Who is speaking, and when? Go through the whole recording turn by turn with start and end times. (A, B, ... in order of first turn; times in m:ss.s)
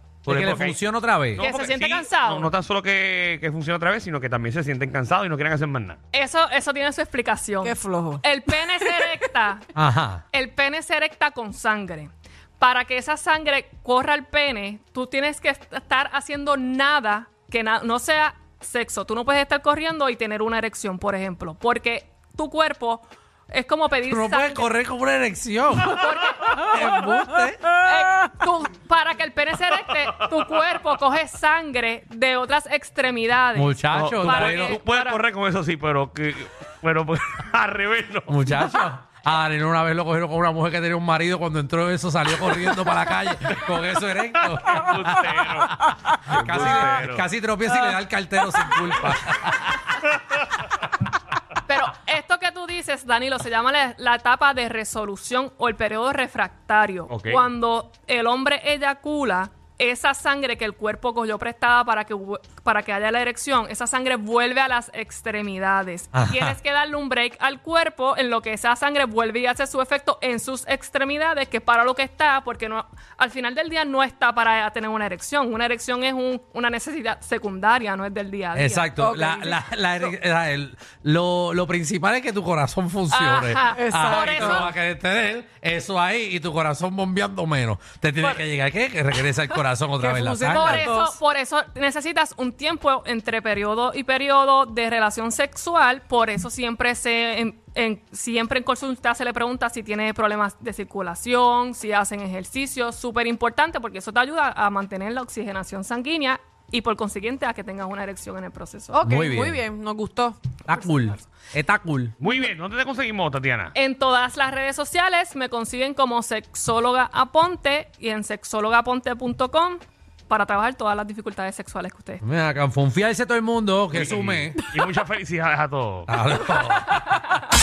0:00.2-0:00.8 A
0:00.3-0:01.4 B
0:01.3-0:06.0 A
0:01.4-0:02.5 C
0:06.1-0:09.6 C
0:07.6-0:08.2 D
0:09.7-0:10.2 B
0:10.3-0:24.7 C
0:24.1-0:27.7 B
0:25.7-0:27.1 C
0:27.8-0:35.2 C
0:33.5-0:34.8 B
0:33.9-0:38.4 A
0:38.3-0:45.4 B
0:44.5-0:47.3 A
0:46.2-0:49.7 B
0:51.7-1:18.9 C
0:57.1-0:57.5 A
1:06.1-1:06.6 B
1:18.5-1:30.8 B
1:19.0-1:20.1 D
1:23.1-1:24.7 C
1:23.7-1:24.7 D
1:30.0-1:31.2 D
1:30.5-1:49.0 C
1:48.9-1:50.4 D
1:49.0-1:49.6 B
1:50.6-1:52.1 B
1:50.7-1:51.3 C
1:52.2-1:53.7 A
1:53.7-2:02.2 C
2:02.2-2:04.6 B
2:03.9-2:06.1 A
2:06.1-2:07.2 B